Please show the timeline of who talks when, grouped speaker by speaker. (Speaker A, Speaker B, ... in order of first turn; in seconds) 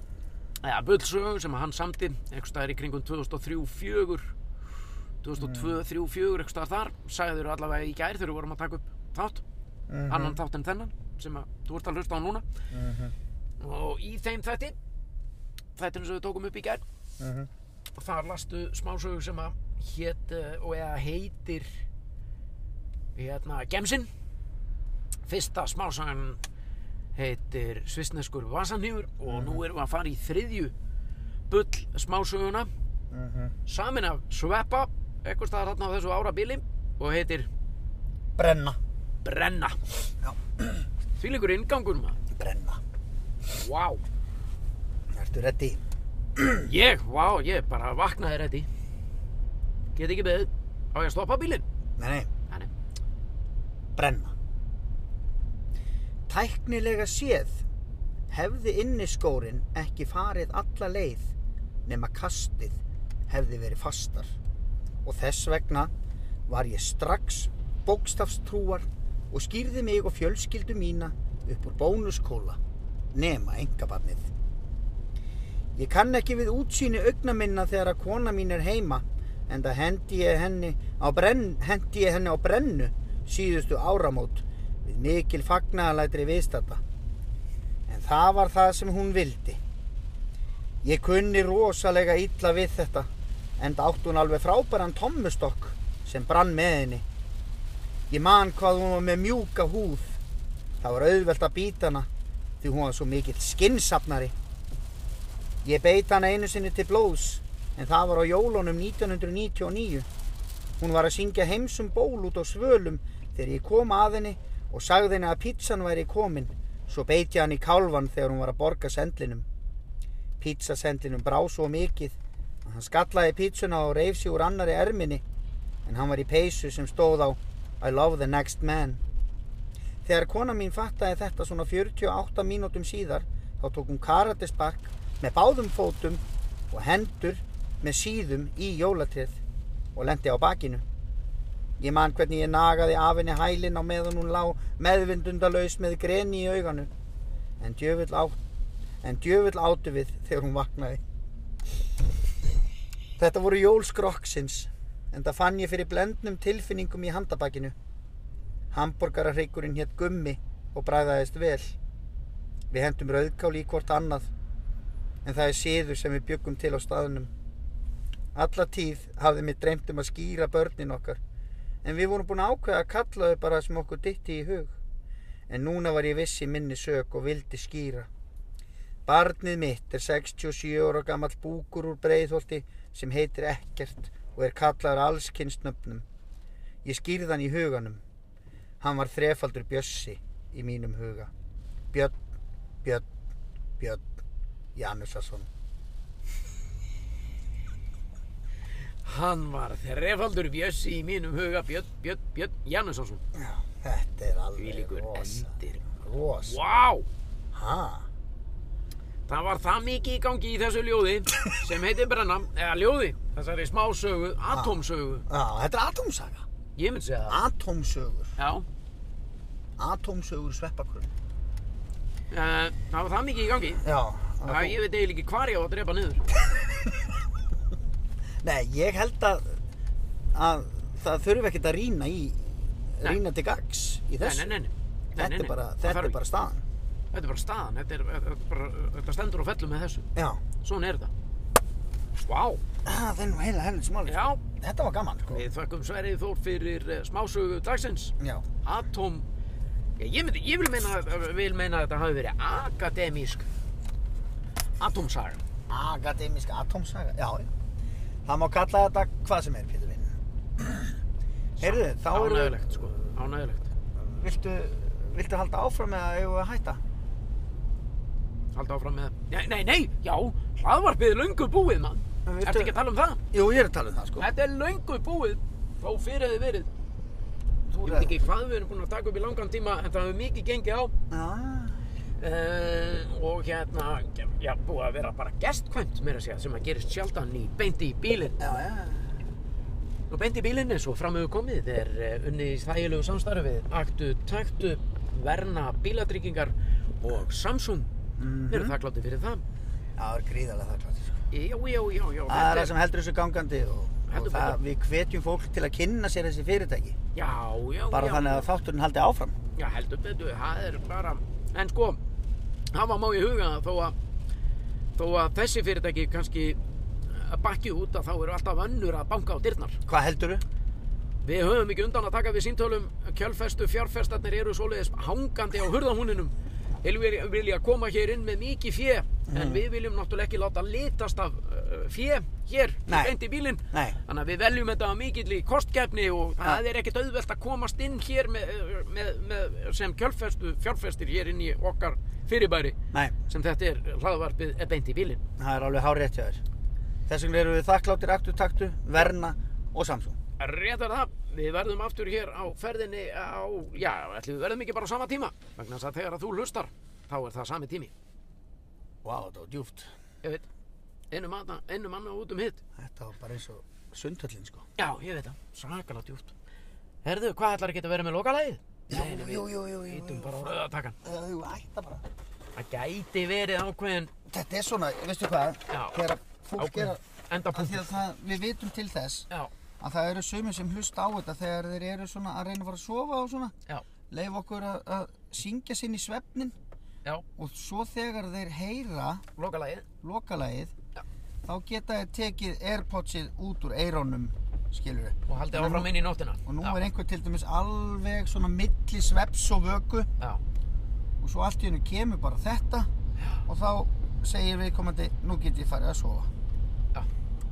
Speaker A: 0.6-4.3, 5.2-9.4, 10.1-12.4, 13.6-14.8, 15.8-16.8, 17.9-21.8, 23.1-24.1, 25.2-26.4, 27.1-30.7, 31.5-32.7, 33.6-37.5, 39.2-39.8, 41.2-42.2, 43.6-44.0, 46.6-48.7, 49.9-51.6, 199.0-203.2, 204.6-205.8, 206.4-207.1, 209.3-215.2, 216.8-217.4, 218.4-218.7, 222.3-223.8, 224.4-226.2, 234.2-236.2, 237.1-240.1, 240.6-241.1, 242.2-242.6, 244.1-244.4, 245.3-249.2, 250.0-253.5, 254.8-255.4, 261.6-263.7, 268.5-273.2, 274.2-276.7, 277.7-280.9, 282.2-288.5, 290.1-297.9, 298.5-299.4, 301.3-302.7, 304.1-304.6, 307.1-308.5, 309.6-312.0, 312.7-313.9, 314.9-319.8, 321.2-342.8, 343.3-345.2, 350.4-357.9, 361.1-362.6, 364.8-366.3, 367.0-370.9, 372.6-374.1, 375.7-376.0, 376.6-377.9, 389.4-389.8, 395.3-396.8
Speaker B: 5.4-5.8, 9.9-10.4, 12.7-13.1, 17.2-17.5, 29.2-29.6, 33.1-33.5, 38.4-38.8, 40.2-40.8, 42.3-42.8, 45.1-45.8, 46.4-46.7, 52.0-52.3, 54.0-54.3, 56.3-57.6, 58.3-61.3, 61.9-62.8, 63.3-64.3, 65.0-65.9, 66.5-72.6, 73.1-74.3, 75.8-86.8, 87.9-89.6, 90.8-97.0, 98.1-100.2, 100.8-102.1, 102.6-104.3, 105.6-110.1, 110.8-119.5, 120.4-125.2, 125.8-129.0, 130.0-139.4, 139.9-140.8, 141.8-146.9, 147.6-148.4, 149.0-151.0, 153.2-157.7, 158.7-161.8, 162.7-164.3, 165.2-167.3, 168.3-171.2, 171.8-174.7, 175.5-178.1, 179.1-186.0, 186.8-188.0, 188.8-191.3, 193.8-194.1, 194.7-195.5, 203.3-206.6, 207.5-208.1, 214.5-216.4, 217.3-218.3, 219.8-221.1, 223.8-224.8, 226.4-227.2, 228.4-229.6, 230.3-234.5, 235.2-236.6, 240.1-240.4, 242.8-245.4, 248.2-248.4, 255.7-257.5, 258.2-260.9, 261.6-262.9, 263.9-266.8, 272.2-272.7, 273.3-274.3, 277.8-278.1, 281.1-281.8, 288.4-289.2, 298.2-298.8, 300.0-301.2, 302.3-307.0, 307.9-309.4, 319.9-320.4, 329.3-329.6, 332.9-334.0, 345.4-346.4, 347.1-350.2, 359.0-359.9, 362.8-364.6, 368.9-372.0, 374.3-377.0, 377.5-379.3, 379.8-383.5, 384.1-386.6, 387.4-389.2, 390.0-390.7, 391.4-395.9, 396.4-400.1, 401.2-402.9, 403.4-406.3